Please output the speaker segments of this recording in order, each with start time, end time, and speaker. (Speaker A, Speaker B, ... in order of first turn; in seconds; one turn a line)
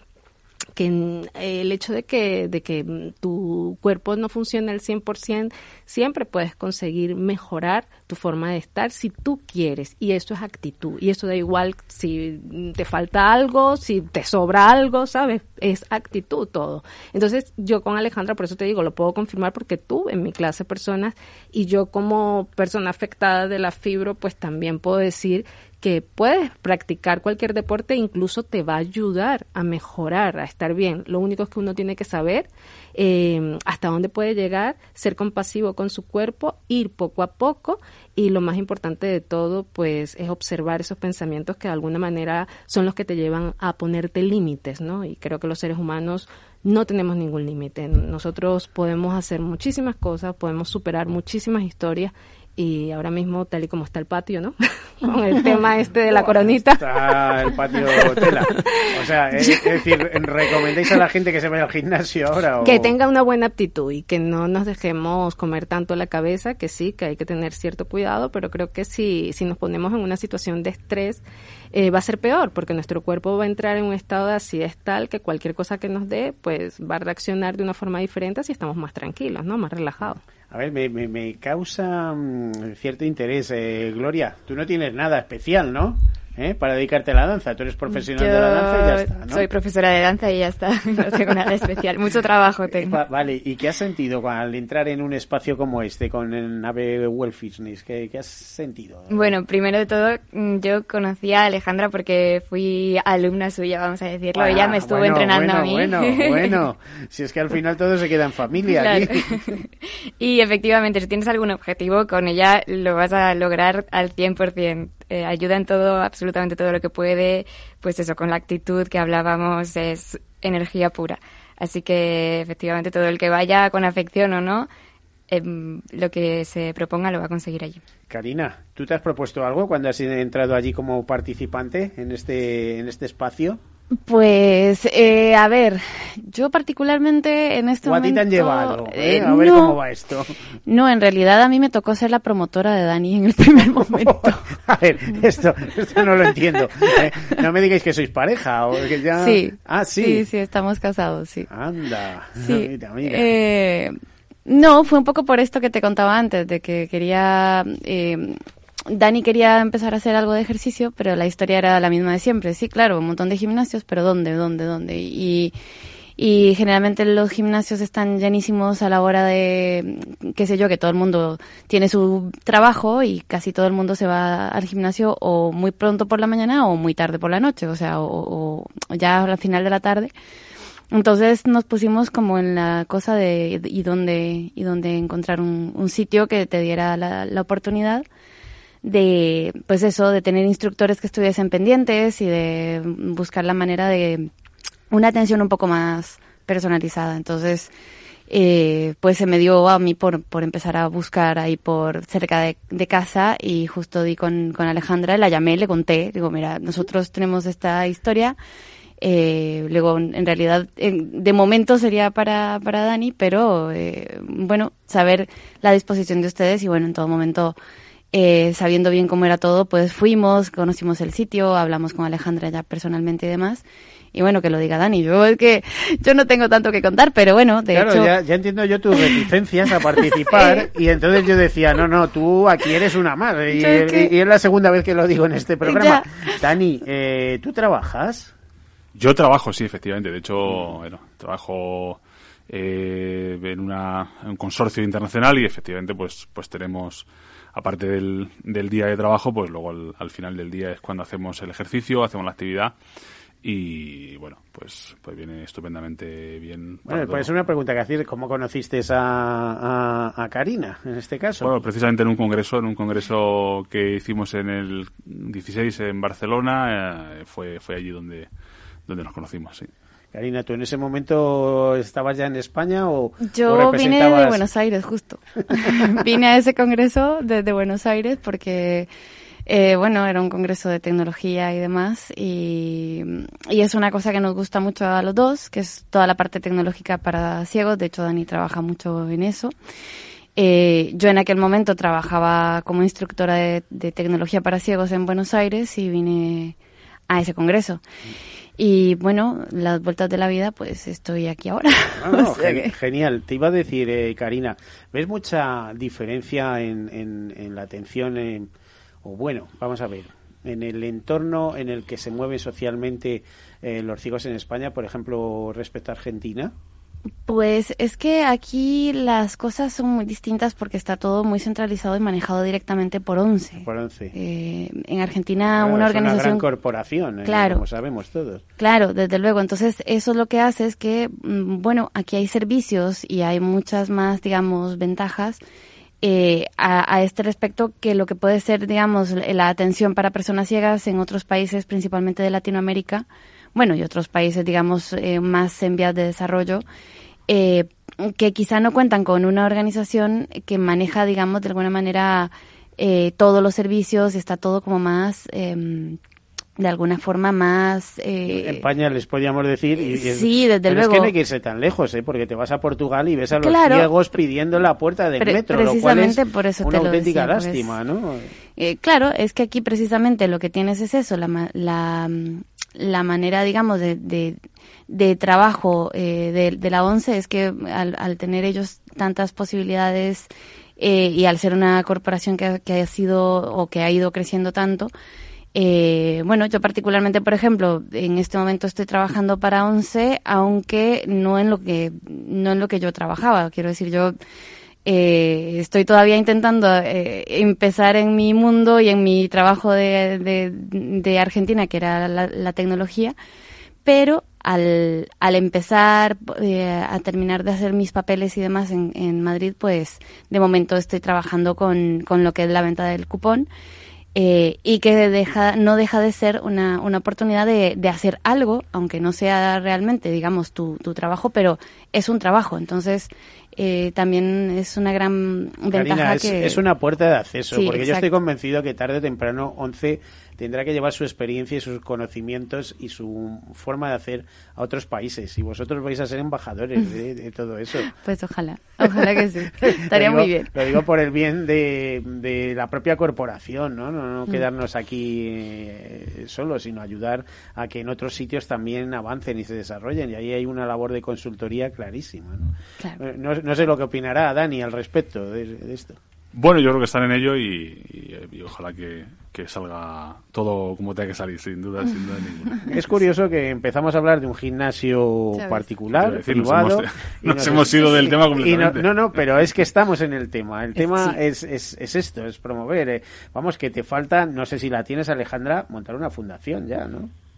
Speaker A: 0.8-58.6
Speaker B: 56.1-62.9
Speaker A: 62.6-80.2
Speaker B: 80.5-89.4
Speaker C: 87.9-93.0
Speaker B: 92.7-99.3
Speaker C: 99.1-106.6
Speaker B: 104.3-109.3
Speaker C: 108.7-124.7
Speaker C: 125.3-127.8
Speaker B: 128.1-133.6
Speaker D: 134.1-139.8
Speaker B: 137.8-140.4
Speaker D: 140.7-144.4
Speaker B: 143.9-150.2
Speaker D: 149.2-151.5
Speaker B: 151.5-153.3
Speaker D: 152.4-153.9
Speaker D: 154.5-165.5
Speaker D: 166.2-180.1
Speaker D: 180.9-188.1
Speaker D: 188.8-194.3
Speaker D: 194.9-197.7
Speaker D: 198.3-208.4
Speaker D: 209.0-217.6
Speaker D: 218.1-228.1
Speaker B: 227.7-238.3
Speaker D: 229.0-229.2
Speaker D: 229.9-230.7
Speaker D: 233.5-234.1
Speaker D: 235.7-236.3
Speaker E: 238.9-252.8
Speaker E: 253.4-257.3
Speaker B: 256.9-261.6
Speaker E: 261.4-268.3
Speaker E: 268.9-269.7
Speaker B: 270.1-274.5
Speaker D: 273.3-278.9
Speaker D: 279.5-289.5
Speaker D: 290.4-296.6
Speaker D: 297.1-297.8
Speaker D: 298.6-302.7
Speaker B: 302.0-308.5
Speaker B: 309.0-316.5
Speaker D: 317.3-326.4
Speaker B: 323.6-324.1
Speaker B: 325.5-328.4
Speaker D: 327.2-327.6
Speaker D: 328.6-335.4
Speaker D: 336.0-346.6
Speaker D: 347.3-356.0
Speaker D: 356.6-358.6
Speaker B: 358.3-368.3
Speaker D: 359.8-361.1
Speaker D: 363.4-363.9
Speaker D: 365.2-367.7
Speaker D: 368.6-384.9
Speaker D: 385.6-394.1
Speaker D: 394.9-403.1
Speaker D: 403.9-413.5
Speaker D: 414.1-426.6
Speaker B: 425.7-437.9
Speaker D: 427.5-428.1
Speaker D: 437.9-440.5
Speaker B: 439.6-456.0
Speaker E: 456.3-462.6
Speaker B: 462.7-477.1
Speaker D: 465.3-465.7
Speaker E: 465.9-468.9